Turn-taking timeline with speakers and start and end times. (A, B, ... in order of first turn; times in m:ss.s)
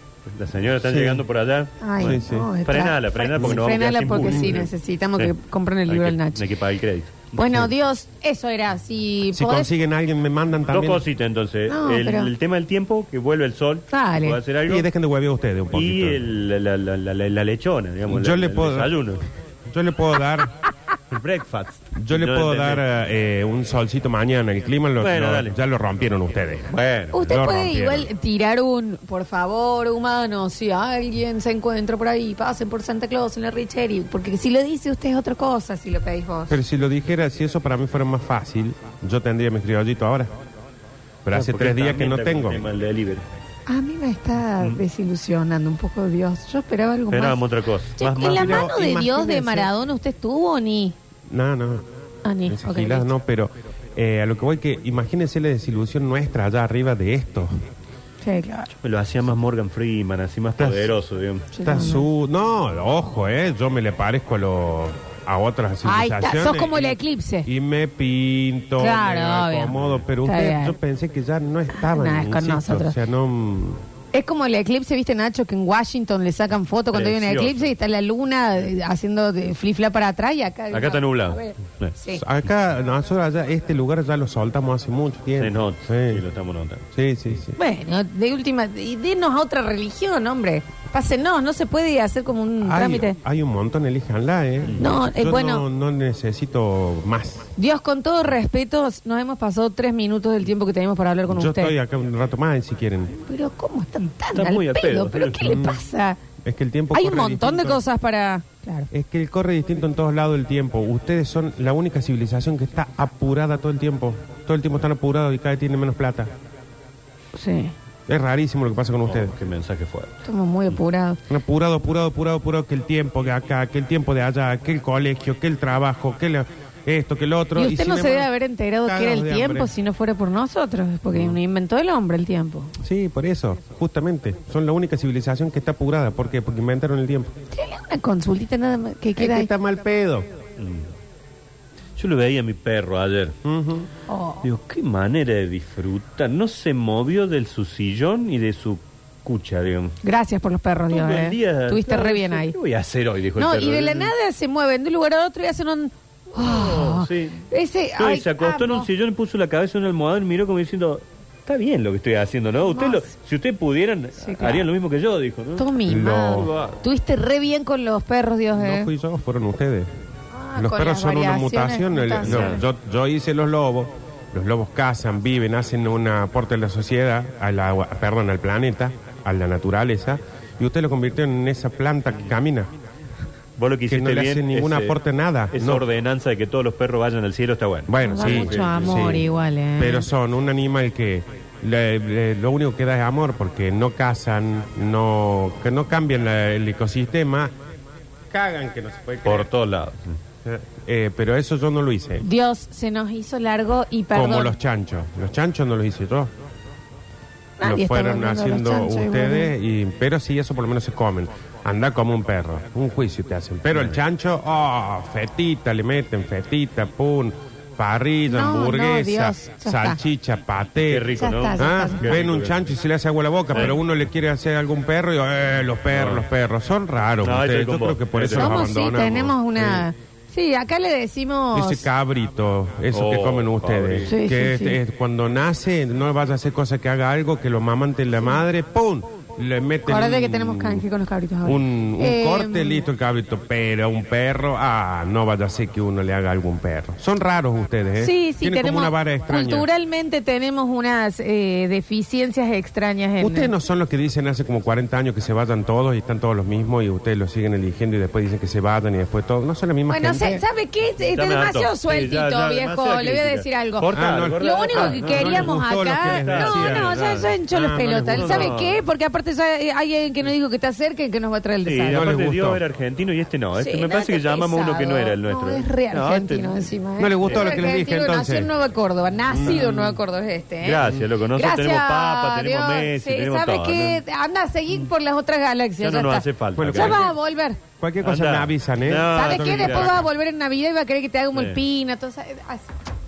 0:00.2-0:05.3 A
0:00.8-0:01.2 B
0:01.8-0:06.4 C
0:02.0-0:02.5 B
0:03.4-0:04.6 B
0:05.9-0:07.6 A
0:07.3-0:09.7 C
0:07.4-0:07.7 B
0:09.3-0:11.0 B
0:10.7-0:14.9 A
0:11.7-0:12.3 C
0:13.9-0:14.4 C
0:14.6-0:16.2 B
0:15.7-0:19.2 A
0:18.1-0:18.9 B
0:19.7-0:20.5 B
0:21.1-0:22.9 A
0:21.9-0:28.1 B
0:25.0-0:25.6 A
0:26.7-0:27.2 A
0:27.1-0:36.6 C
0:36.5-0:40.3 B
0:41.2-0:42.6 B
0:41.3-0:43.2 A
0:43.7-0:50.9 C
0:47.1-0:48.7 A
0:48.2-0:49.7 B
0:51.3-0:51.8 B
0:52.2-0:53.1 C
0:52.5-0:57.6 B
0:58.2-0:58.7 C
0:58.8-1:01.5 A
1:00.6-1:00.9 B
1:01.5-1:02.1 C
1:01.6-1:13.8 B
1:05.8-1:07.5 C
1:08.8-1:09.7 C
1:09.7-1:10.0 A
1:10.2-1:10.8 C
1:11.7-1:13.0 C
1:14.1-1:22.2 C
1:16.9-1:17.7 A
1:20.7-1:21.9 A
1:22.1-1:26.2 B
1:25.4-1:26.8 A
1:26.9-1:27.5 B
1:27.6-1:33.2 C
1:32.6-1:37.5 B
1:34.8-1:35.6 C
1:37.6-1:41.7 C
1:41.3-1:43.2 B
1:43.2-1:46.2 C
1:44.3-1:45.6 A
1:45.4-1:45.8 B
1:46.4-1:47.8 B
1:46.9-1:48.9 C
1:48.9-1:56.3 B
1:57.3-1:57.7 C
1:58.1-1:59.3 B
1:59.0-2:00.2 A
2:00.2-2:01.2 C
2:01.3-2:08.3 B
2:07.6-2:12.7 C
2:08.8-2:09.7 B
2:12.8-2:17.3 B
2:17.5-2:19.5 C
2:19.2-2:20.3 B
2:20.6-2:20.9 A
2:22.0-2:23.4 A
2:23.4-2:23.9 B
2:24.1-2:24.4 C
2:24.4-2:30.0 A
2:30.0-2:32.5 C
2:30.9-2:34.1 A
2:33.3-2:38.9 C
2:36.4-2:37.4 A
2:38.0-2:45.7 A
2:42.7-2:43.1 C
2:44.2-2:44.7 C
2:45.6-2:48.9 C
2:45.8-2:46.5 B
2:46.3-2:46.8 A
2:48.5-2:49.9 B
2:50.3-2:52.6 C
2:50.6-3:02.7 B
2:52.2-2:52.6 A
3:03.6-3:05.0 A
3:03.9-3:05.8 B
3:05.5-3:09.2 A
3:07.9-3:17.5 B
3:08.0-3:10.1 C
3:18.3-3:19.5 B
3:19.2-3:20.2 A
3:20.4-3:22.2 B
3:22.2-3:24.5 C
3:24.1-3:26.3 B
3:27.6-3:29.5 C
3:27.6-3:49.4 B
3:38.3-3:40.0 C
3:40.8-3:42.6 A
3:41.2-3:42.2 C
3:43.5-3:43.8 A
3:45.9-3:46.2 A
3:47.2-3:48.7 A
3:48.3-3:51.9 C
3:51.5-4:00.8 B
3:52.9-3:54.1 A
3:54.1-3:54.8 C
3:59.8-4:02.8 C
4:01.4-4:09.7 B
4:08.0-4:13.5 C
4:13.2-4:20.4 B
4:19.9-4:32.1 C
4:21.2-4:27.3 A
4:23.9-4:28.5 B
4:28.1-4:28.8 A
4:31.6-4:36.7 A
4:31.9-4:32.6 B
4:33.6-4:47.6 C
4:37.0-4:38.5 B
4:37.2-4:37.6 A
4:39.3-4:39.8 B
4:39.5-4:39.8 A
4:40.6-4:44.0 A
4:45.8-4:47.1 A
4:46.6-4:47.1 B
4:47.8-4:50.0 B
4:48.0-4:50.0 A
4:49.1-4:52.7 C
4:51.3-4:51.6 A